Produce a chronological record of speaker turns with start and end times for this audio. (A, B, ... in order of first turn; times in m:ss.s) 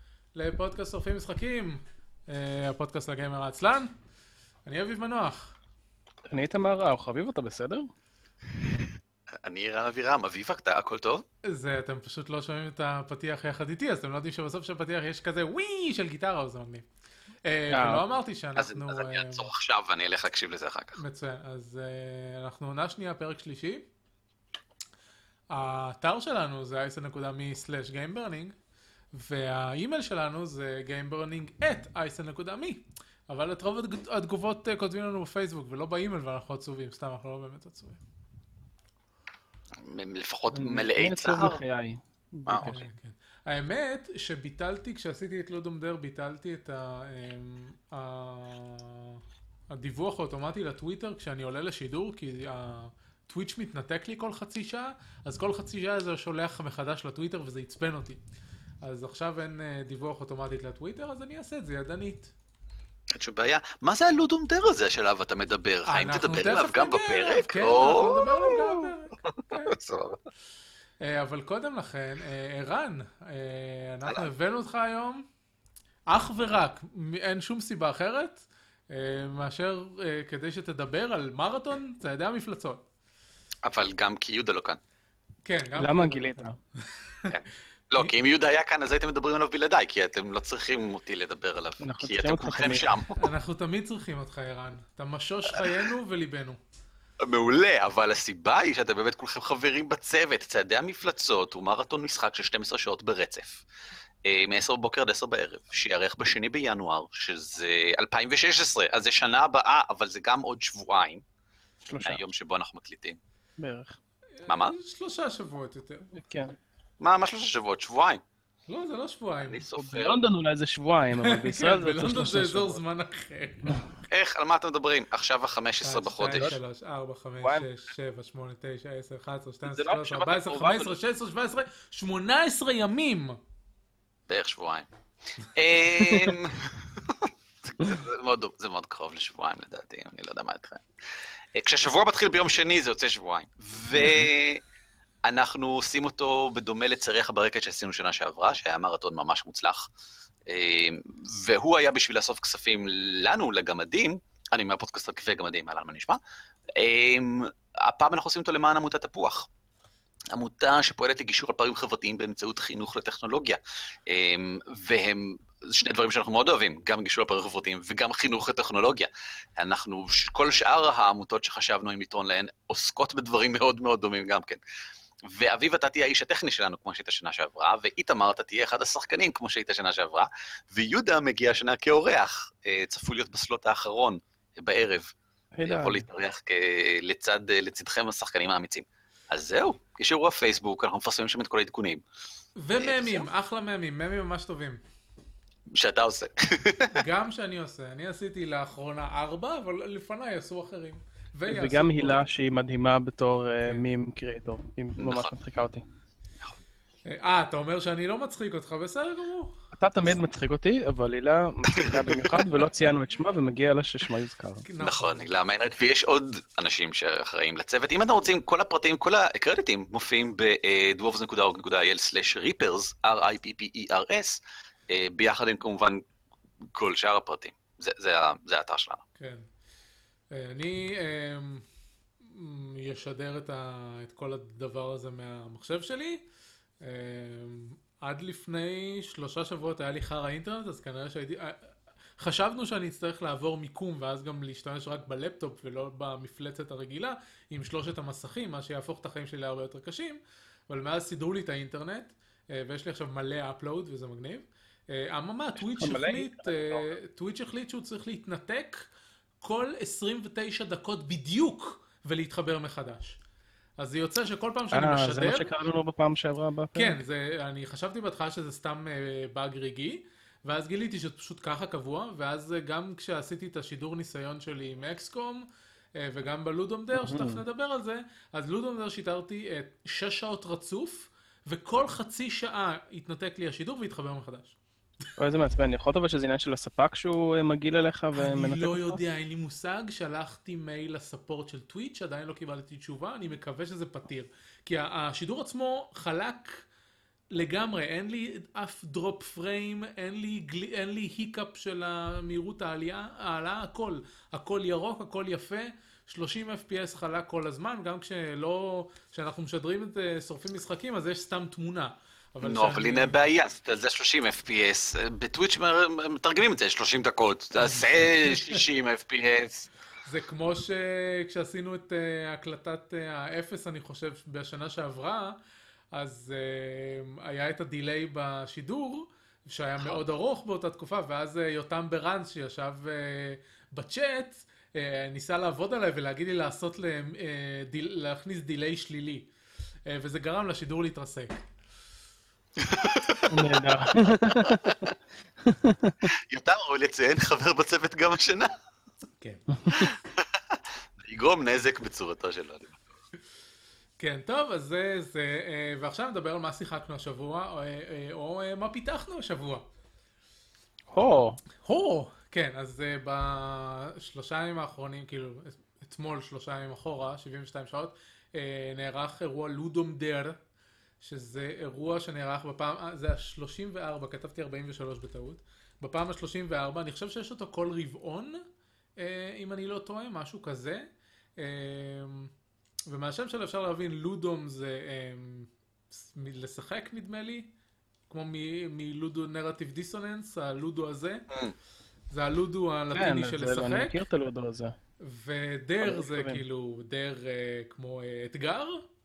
0:00.3-0:03.9 A
0:04.6-0:05.5 A
0:06.3-0:07.9 B
0:09.4-0:11.2 C
0:11.4-0:16.9 A
0:17.4-0:19.5 A
0:17.7-0:18.0 B
0:18.6-0:21.0 C
0:21.0-0:23.8 A
0:25.5-0:28.6 A
0:29.1-0:38.0 A
0:39.8-0:41.6 C
0:40.5-0:42.9 B
0:42.5-0:42.7 C
0:42.6-0:58.2 A
0:58.8-1:02.3 A
1:03.1-1:10.2 C
1:05.8-1:09.8 A
1:11.0-1:15.2 A
1:16.1-1:22.8 A
1:23.6-1:24.8 C
1:25.4-1:27.3 A
1:25.8-1:26.6 B
1:27.3-1:33.3 C
1:31.8-1:33.0 B
1:33.2-1:36.6 A
1:37.2-1:43.6 C
1:44.2-1:51.2 C
1:51.8-1:52.2 B
1:52.0-1:53.2 C
1:53.6-1:54.0 B
1:54.4-1:56.1 A
1:54.4-1:54.7 C
1:56.1-1:56.6 B
1:57.0-1:58.2 C
1:58.7-1:59.6 A
1:59.4-2:00.2 C
1:59.7-2:02.8 B
2:01.2-2:04.0 A
2:04.1-2:06.6 C
2:05.8-2:13.4 A
2:07.4-2:07.6 B
2:09.7-2:10.9 B
2:14.3-2:20.8 C
2:16.1-2:16.3 B
2:21.5-2:24.6 C
2:24.0-2:24.3 B
2:25.2-2:29.9 C
2:30.5-2:36.2 C
2:36.8-2:39.5 C
2:40.3-2:54.6 C
2:55.3-3:05.1 C
3:05.5-3:06.0 B
3:05.6-3:12.0 C
3:12.6-3:14.8 A
3:12.8-3:13.3 C
3:15.7-3:16.9 C
3:16.9-3:22.2 A
3:21.4-3:25.8 B
3:25.0-3:25.3 C
3:27.0-3:29.5 A
3:29.7-3:34.6 B
3:31.8-3:32.5 C
3:34.6-3:35.3 A
3:34.8-3:46.0 C
3:46.7-3:49.0 C
3:49.2-3:49.4 A
3:50.3-3:51.6 A
3:52.2-3:56.2 A
3:56.8-4:18.9 A
4:15.6-4:16.9 B
4:19.4-4:23.2 A
4:23.8-4:25.5 A
4:24.7-4:27.0 B
4:26.7-4:44.6 A
4:36.9-4:37.4 B
4:45.2-4:49.0 B
4:48.1-4:56.6 A
4:57.3-5:13.2 A
5:12.4-5:19.7 C
5:20.0-5:25.4 A
5:25.9-5:39.3 A
5:39.8-5:41.4 A
5:42.6-5:43.6 C
5:43.3-5:44.9 B
5:44.4-5:44.8 C
5:45.4-5:46.1 B
5:46.0-5:48.5 C
5:49.7-5:52.8 C
5:54.0-5:59.6 A
6:00.9-6:01.4 B
6:01.6-6:10.4 A
6:11.0-6:18.4 A
6:19.0-6:20.8 A
6:21.4-6:22.3 A
6:22.9-6:27.5 A
6:28.1-6:31.3 A
6:32.1-6:34.0 A
6:32.9-6:34.7 B
6:35.0-6:38.8 A
6:35.8-6:36.4 B